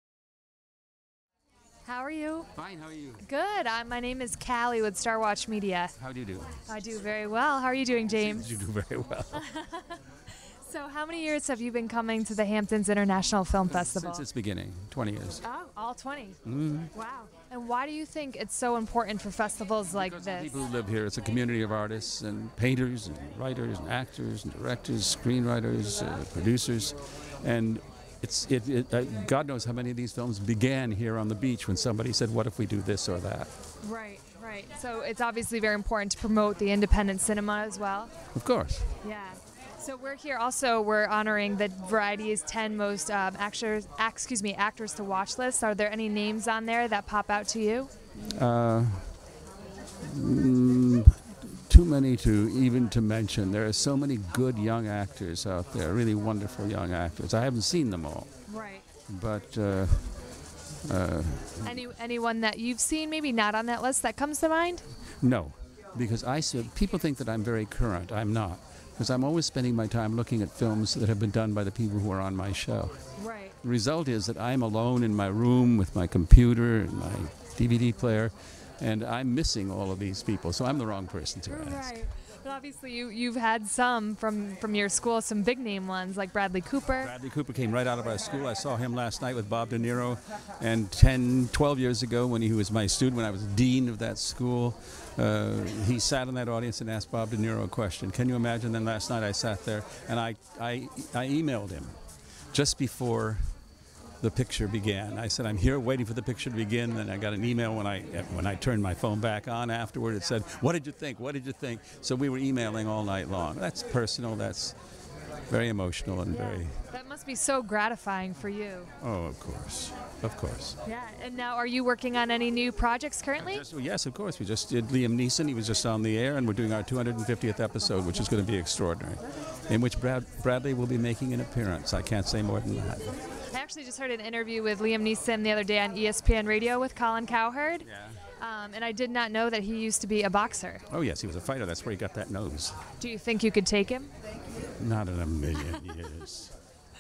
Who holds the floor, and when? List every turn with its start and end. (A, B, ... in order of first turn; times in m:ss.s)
0:01.8-0:02.5 A
0:02.6-0:03.2 B
0:03.2-0:05.9 A
0:06.0-0:06.6 B
0:06.7-0:08.5 A
0:08.1-0:09.4 B
0:09.3-0:10.0 A
0:10.6-0:14.2 A
0:13.7-0:15.4 B
0:15.4-0:16.4 A
0:16.4-0:16.9 B
0:16.9-0:20.6 A
0:19.9-0:33.5 B
0:33.8-0:38.1 A
0:38.3-0:38.9 B
0:39.0-0:47.9 A
0:48.3-0:49.2 B
0:50.0-0:58.4 B
0:58.5-0:58.8 A
0:59.1-1:00.2 B
1:00.8-1:01.8 B
1:01.6-1:04.9 A
1:05.2-1:21.9 B
1:13.2-1:13.6 A
1:21.5-1:27.1 A
1:27.0-1:42.0 B
1:42.5-1:43.4 B
1:44.2-1:54.8 B
1:55.5-1:56.8 B
1:56.3-1:58.9 A
1:59.0-2:00.8 B
2:00.8-2:03.6 A
2:03.4-2:13.2 B
2:13.5-2:17.9 A
2:17.9-2:18.2 B
2:18.4-2:20.8 A
2:20.9-2:22.8 B
2:23.0-2:24.1 A
2:24.6-2:26.5 B